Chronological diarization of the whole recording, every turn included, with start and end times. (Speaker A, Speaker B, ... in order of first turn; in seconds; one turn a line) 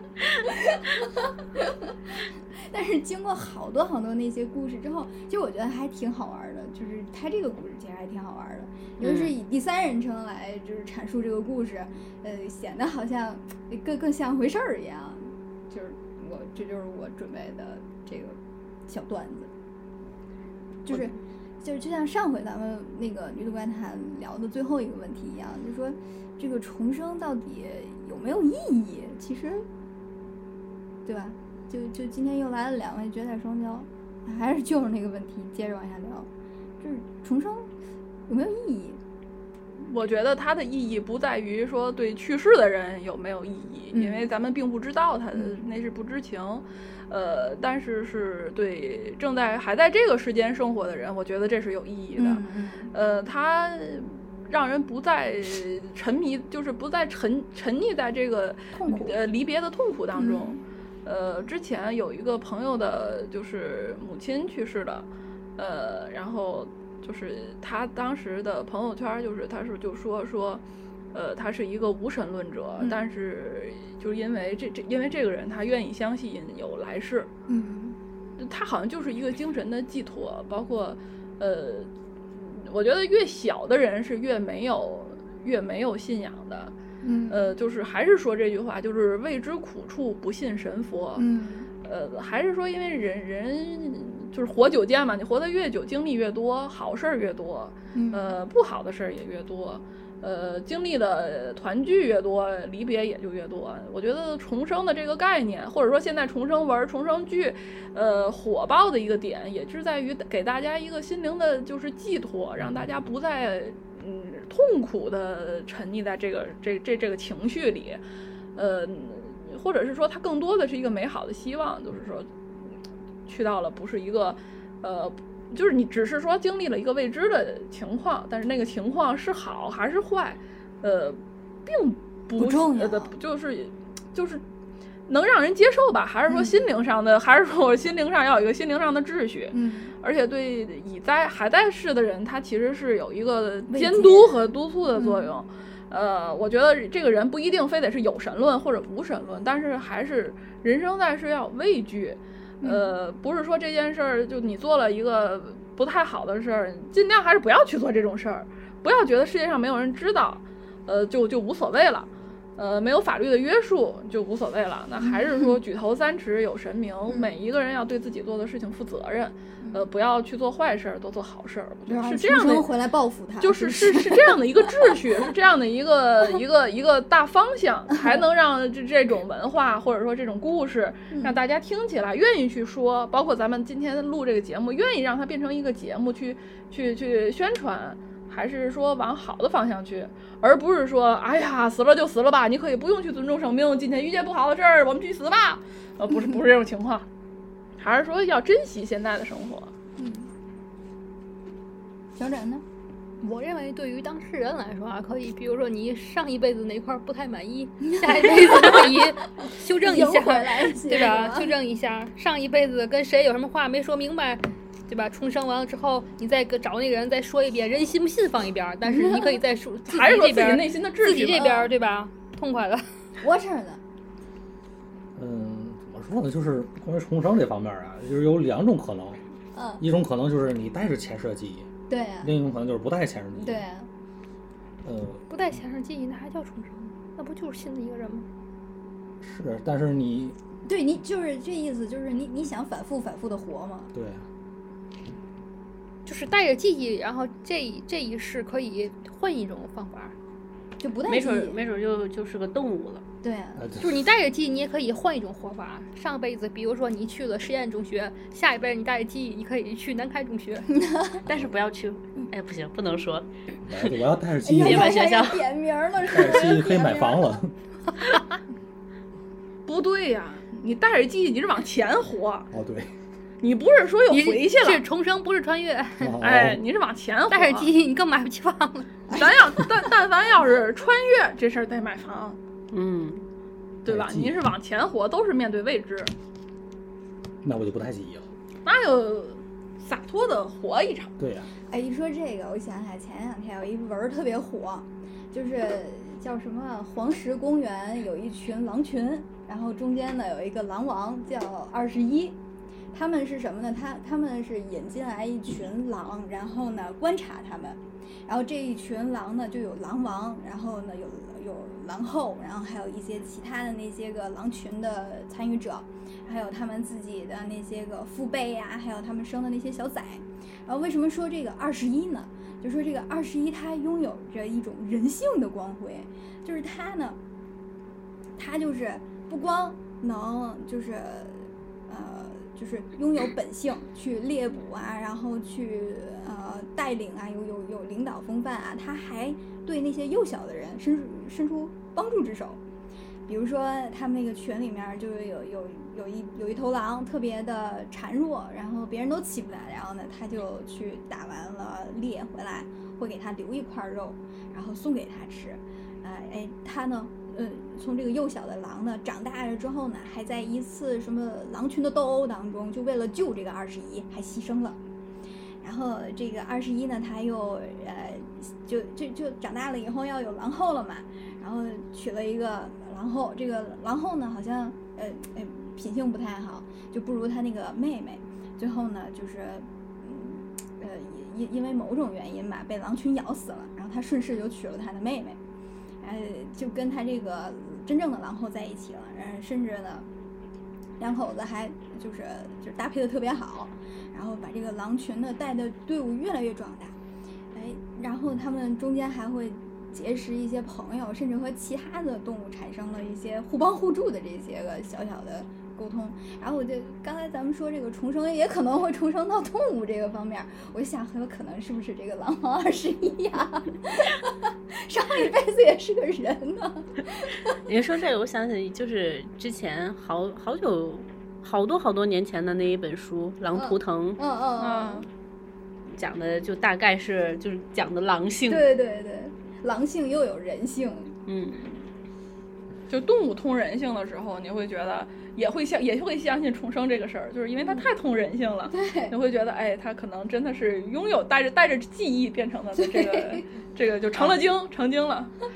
Speaker A: 0.3-19.5
Speaker B: 9.0-9.3
Speaker A: 20.8-29.6
Speaker A: 31.0-36.3
Speaker A: 36.8-37.7
Speaker A: 38.3-39.0
Speaker C: 39.8-77.3
Speaker A: 43.9-44.3
Speaker A: 45.3-45.6
Speaker A: 52.1-52.9
Speaker A: 58.7-59.2
Speaker A: 60.1-60.6
Speaker A: 77.5-78.0
Speaker C: 78.4-86.7
Speaker A: 87.0-87.5
Speaker C: 87.3-91.2
Speaker A: 91.2-91.7
Speaker C: 91.8-118.0
Speaker A: 97.9-98.3
Speaker C: 118.5-122.3
Speaker C: 123.2-134.4
Speaker A: 132.3-133.1
Speaker C: 135.1-172.7
Speaker A: 136.3-136.6
Speaker A: 139.5-139.9
Speaker A: 143.7-145.3
Speaker A: 152.6-152.9
Speaker A: 165.0-165.6
Speaker A: 169.6-169.8
Speaker A: 171.9-175.2
Speaker C: 173.4-197.1
Speaker A: 181.1-181.4
Speaker C: 197.8-199.7
Speaker A: 200.0-200.3
Speaker A: 202.2-202.6
Speaker D: 203.2-222.9
Speaker A: 207.9-211.5
Speaker A: 218.8-219.4
Speaker C: 219.8-221.6
Speaker A: 221.4-221.7
Speaker A: 223.2-223.8
Speaker E: 225.2-229.2
Speaker A: 229.5-229.8
Speaker E: 229.8-231.7
Speaker A: 231.9-232.3
Speaker E: 232.2-233.6
Speaker A: 233.4-233.9
Speaker E: 234.8-235.2
Speaker D: 235.3-238.3
Speaker E: 239.2-240.4
Speaker A: 240.7-243.9
Speaker E: 243.9-244.2
Speaker D: 246.0-250.1
Speaker A: 250.8-251.6
Speaker B: 251.1-253.0
Speaker A: 253.2-253.7
Speaker E: 253.6-253.9
Speaker D: 253.8-260.7
Speaker A: 260.7-261.2
Speaker B: 261.2-263.3
Speaker E: 263.7-265.1
Speaker A: 264.4-267.4
Speaker B: 264.5-265.5
Speaker E: 266.1-267.5
Speaker C: 269.6-272.5
Speaker E: 272.5-272.9
Speaker C: 273.4-274.8
Speaker D: 274.1-276.2
Speaker E: 276.0-276.6
Speaker C: 276.2-277.7
Speaker D: 277.3-279.2
Speaker A: 279.1-279.3
Speaker C: 279.1-282.4
Speaker B: 282.7-283.3
Speaker C: 283.8-286.1
Speaker E: 283.9-284.3
Speaker E: 287.4-288.3
Speaker C: 288.6-291.1
Speaker E: 291.2-291.5
Speaker A: 291.7-302.4
Speaker A: 302.9-327.2
Speaker A: 328.4-342.6
Speaker A: 343.3-364.8
Speaker A: 365.6-385.4
Speaker A: 386.0-390.1
Speaker A: 391.0-396.9
Speaker A: 397.5-417.6
Speaker B: 417.6-424.2
Speaker A: 423.5-425.1
Speaker C: 424.6-425.1
Speaker B: 425.9-428.6
Speaker A: 428.5-431.1
Speaker B: 431.2-431.8
Speaker C: 432.9-445.3
Speaker A: 438.7-439.1
Speaker A: 442.8-443.4